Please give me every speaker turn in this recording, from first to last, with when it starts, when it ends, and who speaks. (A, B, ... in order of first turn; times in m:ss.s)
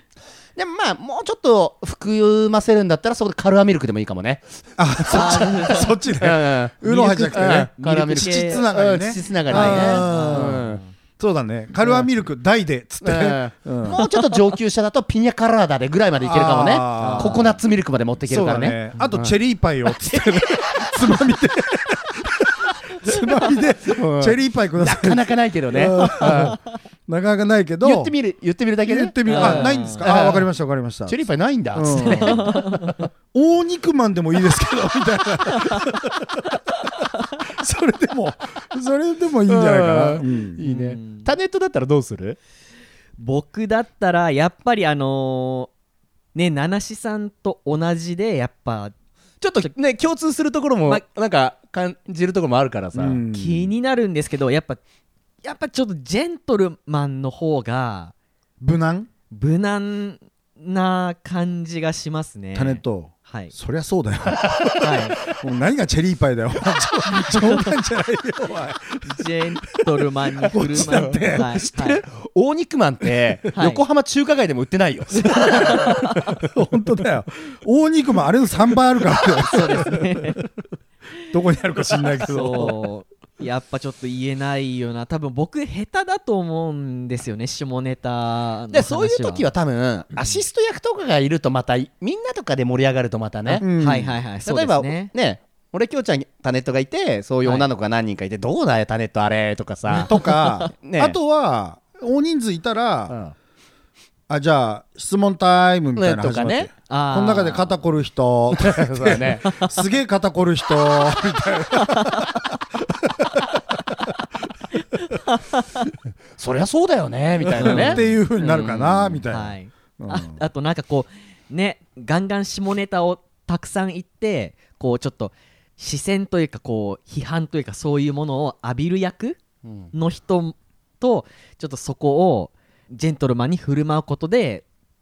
0:00.6-0:10.8 A
0:04.8-0:10.6 B
0:05.1-0:05.9 C
0:08.1-0:08.7 C
0:09.5-0:10.9 C
0:11.2-0:14.0 B
0:11.8-0:12.1 A
0:13.0-0:19.4 A
0:13.9-0:14.4 C
0:16.2-0:17.6 B
0:17.0-0:17.5 C
0:18.2-0:28.1 B
0:20.2-0:21.0 A
0:23.8-0:26.6 A
0:27.8-0:30.5 A
0:28.9-0:31.2 B
0:29.3-0:30.1 C
0:31.1-0:33.0 A
0:31.7-0:32.6 B
0:31.9-0:33.0 C
0:33.3-0:36.4 B
0:37.4-0:40.6 B
0:39.5-0:42.4 A
0:40.6-0:41.3 C
0:43.2-0:45.7 C
0:46.3-0:48.9 C
0:49.4-0:53.2 A
0:53.0-0:53.7 B
0:53.3-0:54.8 C
0:55.4-0:58.1 C
0:58.6-0:59.1 B
0:59.3-1:03.5 C
1:02.5-1:11.6 B
1:04.4-1:05.1 A
1:04.8-1:05.2 C
1:07.1-1:07.6 C
1:09.0-1:12.0 C
1:10.8-1:16.4 A
1:13.5-1:13.8 C
1:15.2-1:16.2 C
1:16.2-1:20.2 B
1:19.5-1:20.4 C
1:21.3-1:22.8 B
1:22.2-1:29.5 C
1:28.7-1:33.7 A
1:33.5-1:35.1 C
1:33.6-1:34.2 B
1:34.4-1:41.2 A
1:39.9-1:43.2 B
1:43.1-1:43.4 A
1:44.3-1:52.2 B
1:46.0-1:46.7 A
1:46.9-1:47.7 C
1:48.5-1:49.6 A
1:51.8-1:52.2 C
1:55.0-1:55.8 C
1:56.4-1:59.2 A
1:57.5-2:00.4 B
1:57.6-1:58.1 C
1:59.3-2:09.4 C
2:09.6-2:09.9 A
2:09.9-2:14.6 C